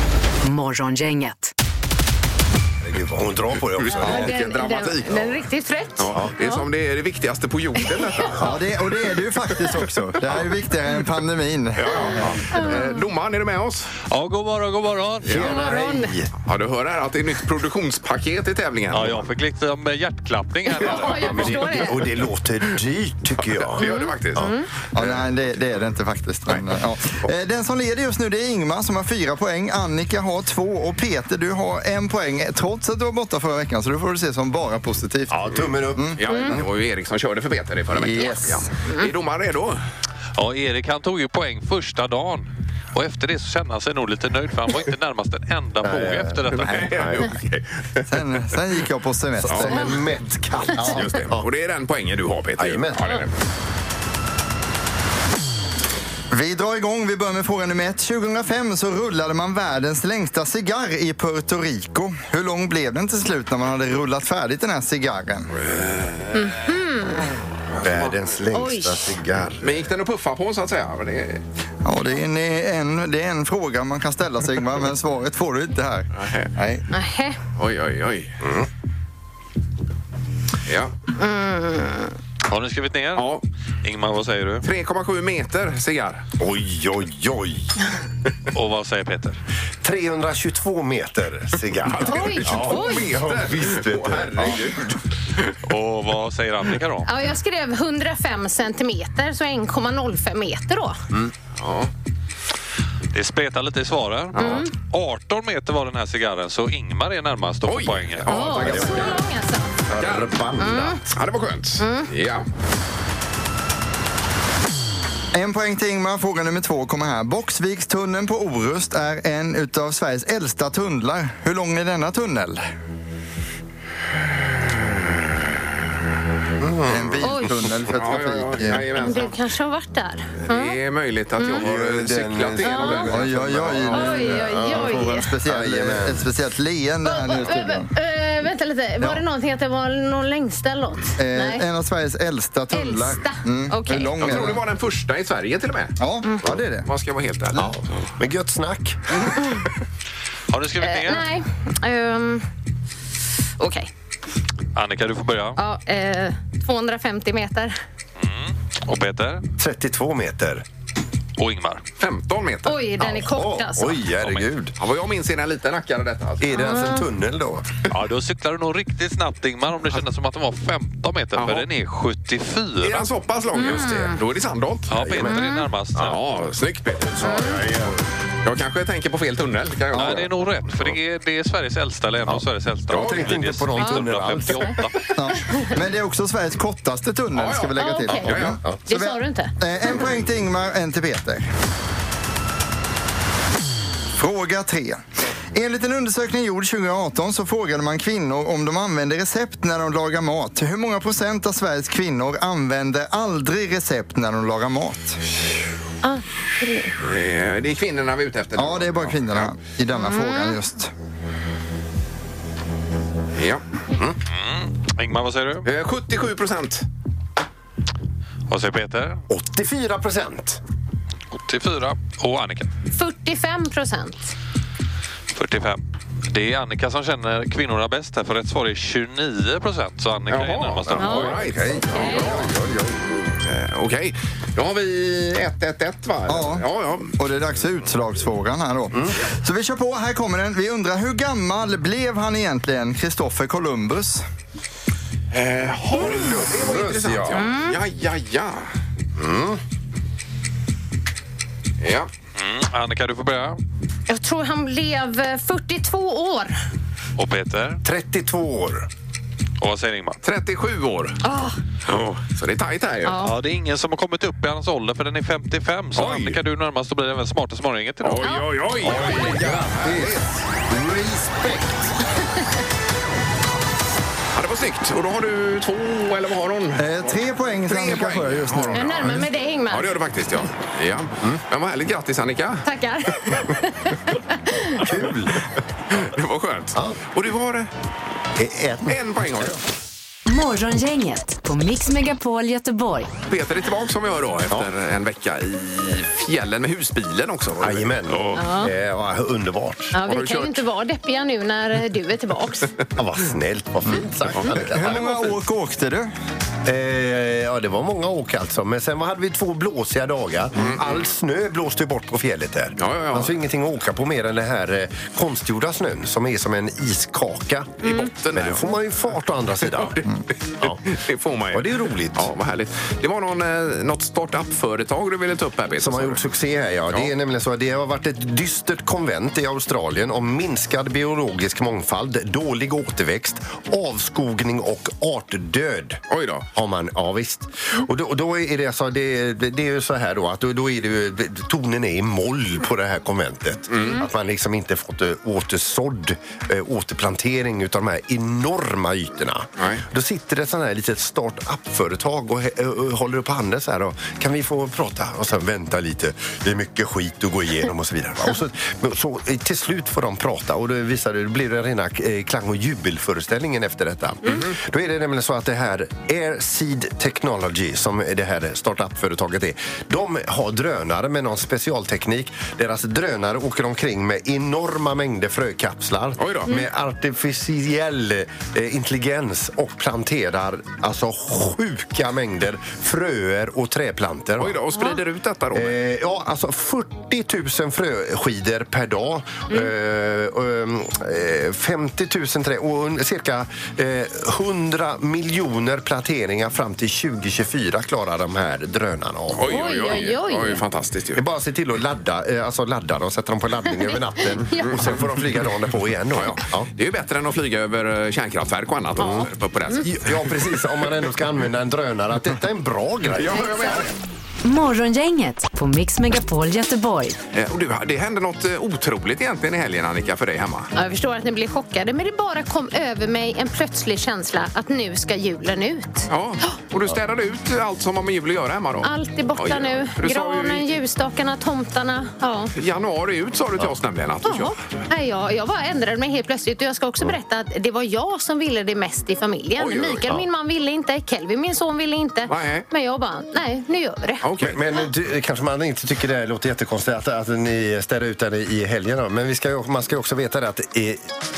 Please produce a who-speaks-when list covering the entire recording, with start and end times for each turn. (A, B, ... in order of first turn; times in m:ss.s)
0:00.4-0:01.5 A
0:02.8-0:04.3 B
0:03.8-0:05.4 C
0:03.9-0:06.6 D
0:06.0-0:08.5 C
0:08.4-0:12.4 E
0:11.8-0:13.9 C
0:12.5-0:13.0 D
0:14.1-0:15.5 F
0:15.2-0:16.3 B
0:15.4-0:16.1 D
0:16.4-0:19.3 C
0:18.9-0:21.6 F
0:20.7-0:22.1 D
0:21.0-0:25.1 B
0:23.4-0:24.5 C
0:23.8-0:24.7 D
0:25.0-0:36.6 E
0:35.3-0:36.2 B
0:36.2-0:39.8 C
0:36.3-0:36.5 D
0:37.9-0:38.7 E
0:38.2-0:39.1 D
0:40.4-0:46.9 F
0:45.8-0:47.3 B
0:46.5-0:48.1 C
0:48.1-0:50.0 E
0:49.4-0:51.5 B
0:49.5-0:49.7 C
0:50.8-0:53.3 C
0:52.6-0:53.2 B
0:56.3-1:05.5 E
1:05.6-1:06.6 C
1:06.3-1:07.3 D
1:07.8-1:08.2 C
1:07.8-1:09.8 B
1:08.5-1:09.2 D
1:09.6-1:11.4 C
1:11.8-1:16.8 E
1:16.2-1:16.5 C
1:16.9-1:17.4 D
1:17.6-1:18.4 C
1:20.7-1:20.9 C
1:21.2-1:22.1 D
1:22.5-1:23.3 F
1:23.2-1:23.4 C
1:23.8-1:24.6 F
1:24.6-1:26.2 C
1:26.4-1:27.7 B
1:28.5-1:29.4 F
1:29.8-1:34.8 B
1:31.8-1:35.5 C
1:32.1-1:33.1 D
1:35.7-1:37.1 F
1:37.1-1:41.0 D
1:41.6-1:41.9 C
1:43.1-1:48.6 F
1:44.4-1:44.7 D
1:47.6-1:49.2 C
1:48.3-1:49.7 D
1:48.4-1:49.2 B
1:49.9-1:51.1 B
1:49.9-1:50.4 C
1:50.6-1:51.0 D
1:51.1-1:52.5 C
1:51.8-1:52.1 D
1:55.3-2:02.7 E
2:06.6-2:07.9 B
2:06.9-2:08.9 E
2:07.2-2:07.6 D
2:07.9-2:09.4 C
2:09.0-2:10.8 D
2:10.4-2:13.3 C
2:11.4-2:11.6 D
2:11.6-2:16.2 B
2:12.6-2:13.1 D
2:13.1-2:17.9 E
2:13.9-2:15.3 D
2:17.0-2:21.6 D
2:21.2-2:24.6 E
2:22.7-2:24.2 D
2:24.2-2:26.0 C
2:26.0-2:26.9 E
2:26.8-2:27.7 C
2:27.6-2:29.4 B
2:30.5-2:31.2 F
2:30.8-2:32.5 D
2:33.6-2:33.9 D
2:34.8-2:35.6 F
2:35.6-2:37.8 D
2:38.2-2:39.4 F
2:39.6-2:40.6 B
2:41.4-2:41.8 F
2:42.0-2:42.8 C
2:42.6-2:44.0 D
2:43.0-2:44.7 B
2:44.2-2:46.8 C
2:46.4-2:47.8 B
2:46.6-2:47.0 D
2:47.9-2:53.1 F
2:51.4-2:51.7 C
2:52.8-2:55.3 C
2:53.6-2:54.2 D
2:53.6-2:53.9 B
2:54.9-2:56.2 F
2:55.0-2:55.4 B
2:55.2-2:55.7 D
2:56.0-2:57.6 C
2:57.1-2:58.0 B
2:57.2-2:57.6 D
2:58.4-3:00.9 C
2:59.9-3:05.1 F
3:02.3-3:04.8 B
3:02.9-3:03.3 C
3:03.8-3:04.1 D
3:05.2-3:11.4 E
3:05.4-3:05.7 D
3:07.3-3:08.6 C
3:07.8-3:10.0 D
3:14.2-3:15.0 E
3:15.5-3:25.2 E
3:26.0-3:26.9 D
3:27.0-3:29.5 C
3:28.6-3:30.9 E
3:29.9-3:30.6 D
3:33.4-3:33.6 C
3:34.3-3:35.7 F
3:35.6-3:36.9 C
3:38.5-3:39.2 F
3:39.3-3:40.6 B
3:41.4-3:42.7 F
3:42.9-3:44.3 D
3:45.3-3:51.8 F
3:50.3-3:52.5 C
3:51.0-3:53.1 B
3:51.0-3:51.3 D
3:51.9-3:52.4 D
3:53.4-3:57.2 C
3:56.3-4:04.2 E
3:58.9-3:59.2 B
4:05.3-4:08.7 C
4:05.9-4:07.4 B
4:07.3-4:07.8 D
4:09.2-4:09.6 B
4:11.8-4:12.1 C
4:12.4-4:13.6 F
4:14.1-4:16.5 D
4:17.2-4:17.8 F
4:17.8-4:18.9 B
4:19.6-4:20.2 F
4:20.2-4:21.2 C
4:21.2-4:21.6 D
4:21.9-4:23.2 C
4:23.0-4:23.3 D
4:23.2-4:28.3 F
4:26.0-4:26.4 C
4:28.0-4:30.2 C
4:28.8-4:30.1 B
4:28.9-4:30.0 E
4:30.7-4:31.9 E
4:34.4-4:36.9 C
4:36.8-4:39.2 E
4:37.7-4:42.7 C
4:38.8-4:39.9 D
4:42.6-4:44.8 D
4:44.7-4:45.4 B
4:45.9-4:47.7 C
4:48.4-4:49.6 B
4:48.9-4:49.6 C
4:50.3-4:53.1 A
4:53.3-4:58.5 C
4:57.6-4:59.9 B
4:58.3-4:58.7 D
4:59.9-5:02.7 D
5:00.1-5:00.6 C
5:03.0-5:05.4 B
5:04.5-5:06.1 E
5:06.6-5:17.8 B
5:10.6-5:11.0 C
5:12.8-5:13.4 C
5:17.8-5:18.7 C
5:18.3-5:20.0 B
5:19.6-5:26.2 C
5:21.5-5:22.3 B
5:25.8-5:36.0 B
5:36.1-5:36.5 C
5:36.5-6:24.6 B
5:43.7-5:44.0 C
6:16.2-6:16.5 C
6:24.4-6:25.8 C
6:25.5-6:39.8 B
6:39.3-6:41.2 C
6:39.5-6:40.6 D
6:41.2-6:46.7 B
6:43.7-6:44.9 D
6:46.1-6:50.2 C
6:49.0-6:49.8 D
6:49.0-6:53.8 B
6:53.2-6:53.9 C
6:53.3-6:53.9 D
6:54.4-6:57.2 A
6:57.3-7:00.7 C
7:00.8-7:06.5 D
7:06.1-7:10.8 C
7:08.8-7:12.5 D
7:12.6-7:14.7 C
7:14.2-7:24.2 D
7:19.6-7:20.1 C
7:22.3-7:22.7 C
7:24.2-7:24.6 C
7:24.4-7:31.1 B